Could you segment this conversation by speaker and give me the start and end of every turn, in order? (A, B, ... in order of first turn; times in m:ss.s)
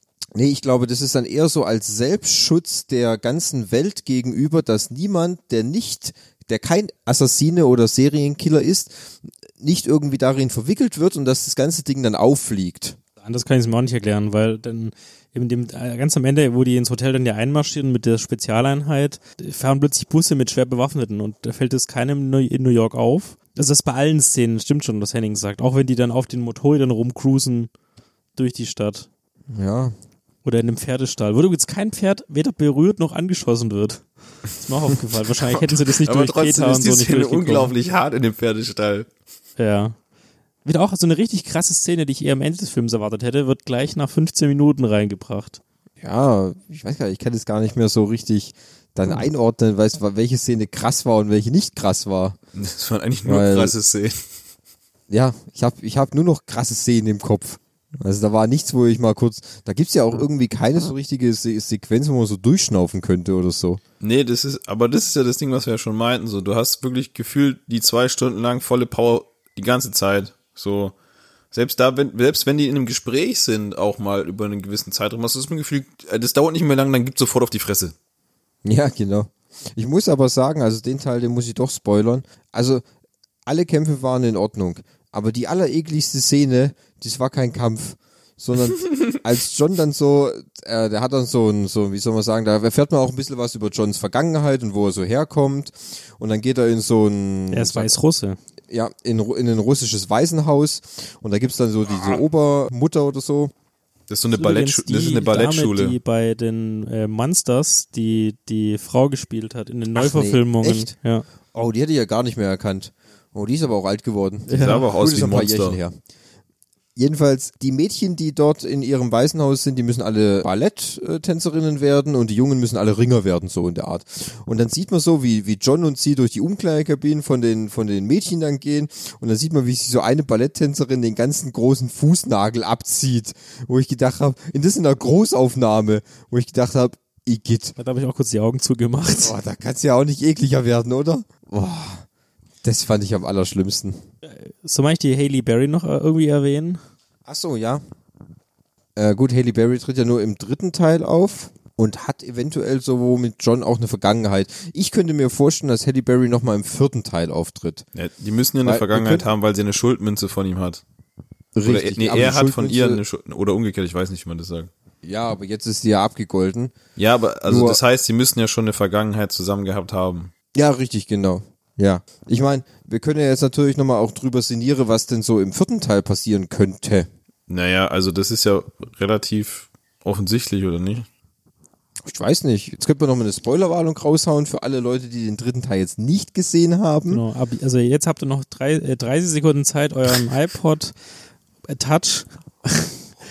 0:00.4-0:13.0 A
0:13.2-0:27.7 B
0:28.4-0:29.1 B
0:29.5-0:29.9 A
0:30.4-0:37.7 B
0:35.4-0:39.1 C
0:39.6-0:40.0 B
0:40.6-0:45.6 B
0:46.0-0:52.4 A
0:52.5-0:54.2 C
0:53.2-0:53.8 A
0:55.1-1:03.8 A
1:04.0-1:10.9 C
1:11.5-1:18.0 C
1:18.6-1:22.8 A
1:23.4-1:37.9 A
1:37.5-1:38.4 B
1:38.7-1:43.5 A
1:44.1-1:46.0 C
1:44.4-1:51.2 B
1:49.9-1:50.9 A
1:51.5-1:56.0 A
1:54.5-1:54.8 B
1:54.5-1:55.8 C
1:57.0-2:17.8 A
2:17.8-2:19.3 B
2:19.2-2:22.0 A
2:22.6-2:24.0 A
2:24.2-2:26.8 B
2:27.3-2:27.8 A
2:29.0-2:37.9 A
2:37.9-2:40.8 C
2:38.6-2:39.3 A
2:41.5-2:43.0 A
2:41.6-2:44.7 C
2:45.0-2:46.7 A
2:47.0-2:50.3 C
2:47.4-2:47.8 A
2:50.5-2:57.1 A
2:57.5-3:01.1 C
3:02.0-3:07.2 A
3:07.1-3:10.9 B
3:11.7-3:13.0 B